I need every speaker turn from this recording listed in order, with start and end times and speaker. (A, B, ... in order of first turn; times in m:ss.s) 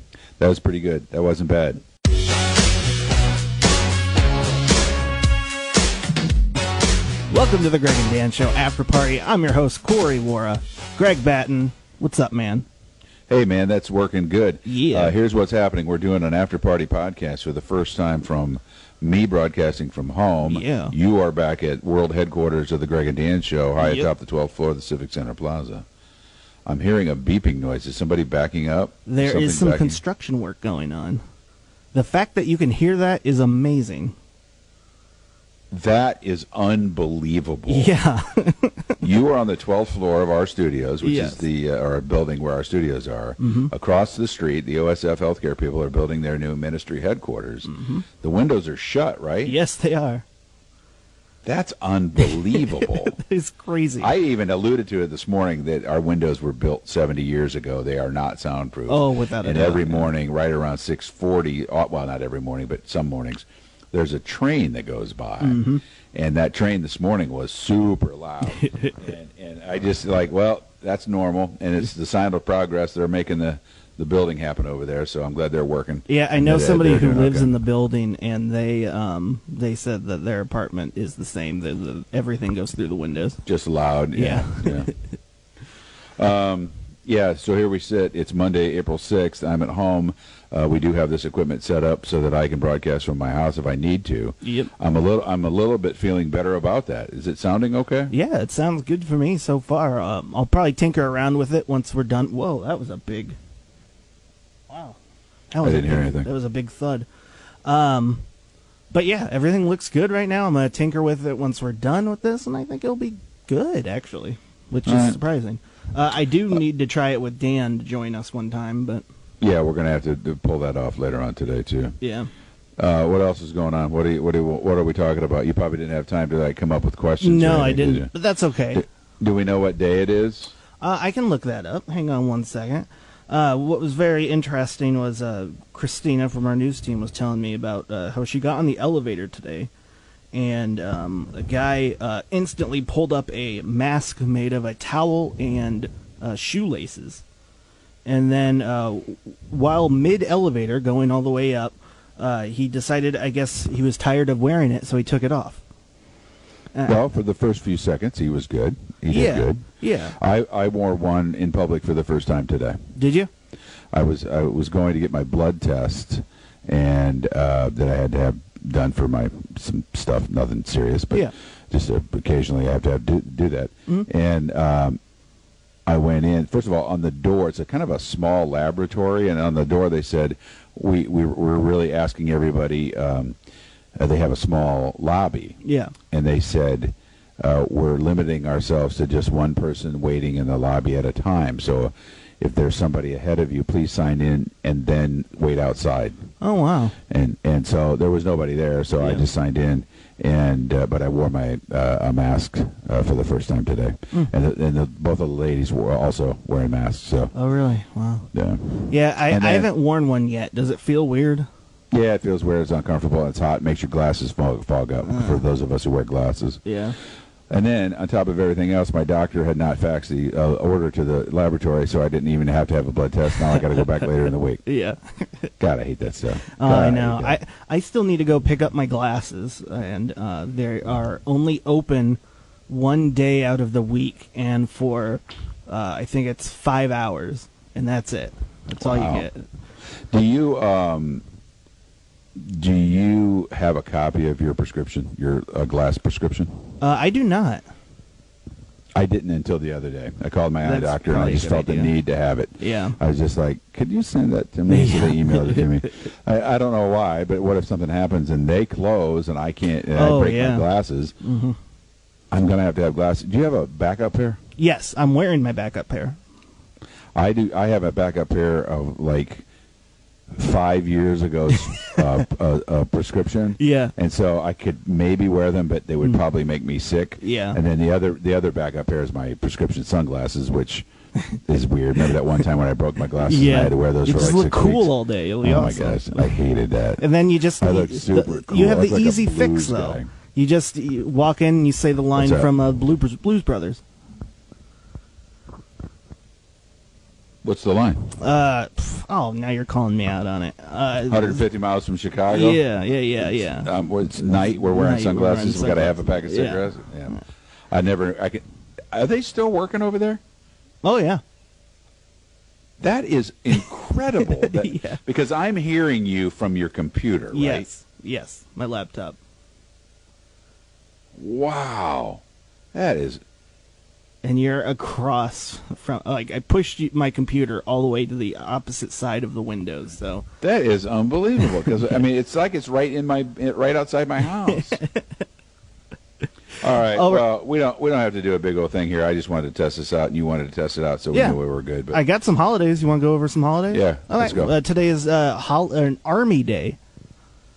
0:00.4-0:01.8 A
0:07.3-0:12.7 B
0:13.3-0:25.8 A
0:14.6-0:15.2 B
0:20.4-0:20.9 B
0:23.8-0:24.1 B
0:26.6-0:30.0 A
0:29.1-0:31.2 B
0:31.9-0:34.1 B
0:35.7-0:37.9 A
0:37.7-0:39.0 B
0:39.0-0:49.6 A
0:41.0-0:41.4 B
0:43.4-0:43.7 B
0:47.6-0:48.0 B
0:49.4-0:50.2 B
0:51.4-0:53.2 A
0:52.5-0:54.1 B
0:54.0-1:17.5 A
0:58.9-1:00.1 B
1:05.4-1:05.8 B
1:08.6-1:08.9 B
1:16.1-1:23.4 B
1:23.4-1:24.9 A
1:24.1-1:25.0 B
1:26.2-1:38.1 A
1:34.4-1:34.7 B
1:38.1-1:43.4 B
1:44.7-1:45.0 B
1:45.5-1:47.1 B
1:45.6-1:46.3 A
1:47.6-1:48.2 B
1:48.9-1:59.0 B
1:54.8-1:55.2 A
1:59.4-2:02.0 A
2:02.0-2:02.3 B
2:02.8-2:08.1 A
2:07.2-2:08.8 B
2:08.7-2:10.5 A
2:10.8-2:19.7 B
2:20.3-2:27.2 B
2:28.0-2:35.6 B
2:36.7-2:37.1 B
2:36.8-2:39.6 A
2:39.1-2:40.2 B
2:40.2-2:42.8 A
2:42.9-2:43.3 B
2:43.9-2:55.0 A
2:55.8-3:03.4 A
3:04.0-3:05.6 A
3:05.6-3:05.9 B
3:06.1-3:16.3 A
3:16.4-3:17.0 B
3:17.1-3:27.3 A
3:27.3-3:28.3 B
3:28.3-3:29.7 A
3:28.9-3:31.5 B
3:31.9-3:36.6 A
3:35.0-3:35.4 B
3:36.6-3:37.0 B
3:37.5-3:44.6 A
3:43.3-3:43.9 B
3:44.6-3:45.5 B
3:45.6-3:47.4 A
3:46.5-3:59.4 B
3:58.8-3:59.3 A
4:00.1-4:01.2 A
4:02.4-4:06.6 A
4:06.8-4:07.6 B
4:08.9-4:21.1 A
4:10.6-4:11.9 B
4:12.6-4:13.0 B
4:14.7-4:15.9 B
4:19.9-4:20.7 B
4:21.2-4:21.6 B
4:22.3-4:24.4 A
4:24.6-4:26.2 B
4:27.1-4:29.4 A
4:30.3-4:47.0 A
4:31.5-4:31.9 B
4:33.6-4:33.9 B
4:37.2-4:37.6 B
4:43.2-4:46.4 B
4:47.0-4:53.8 B
4:47.6-4:50.1 A
4:52.2-4:52.5 A
4:57.4-4:58.1 A
4:58.2-5:01.4 B
5:01.1-5:02.6 A
5:02.3-5:03.7 B
5:03.2-5:10.2 A
5:04.2-5:07.2 B
5:10.8-5:11.2 B
5:12.8-5:17.7 A
5:14.2-5:15.0 B
5:17.3-5:19.2 B
5:21.2-5:22.2 A
5:22.7-5:23.2 A
5:24.2-5:30.2 B
5:30.4-5:34.8 A
5:34.5-5:35.0 B
5:36.6-5:42.0 A
5:36.8-5:37.2 B
5:41.1-5:41.4 B
5:41.9-5:46.8 B
5:43.7-5:44.6 A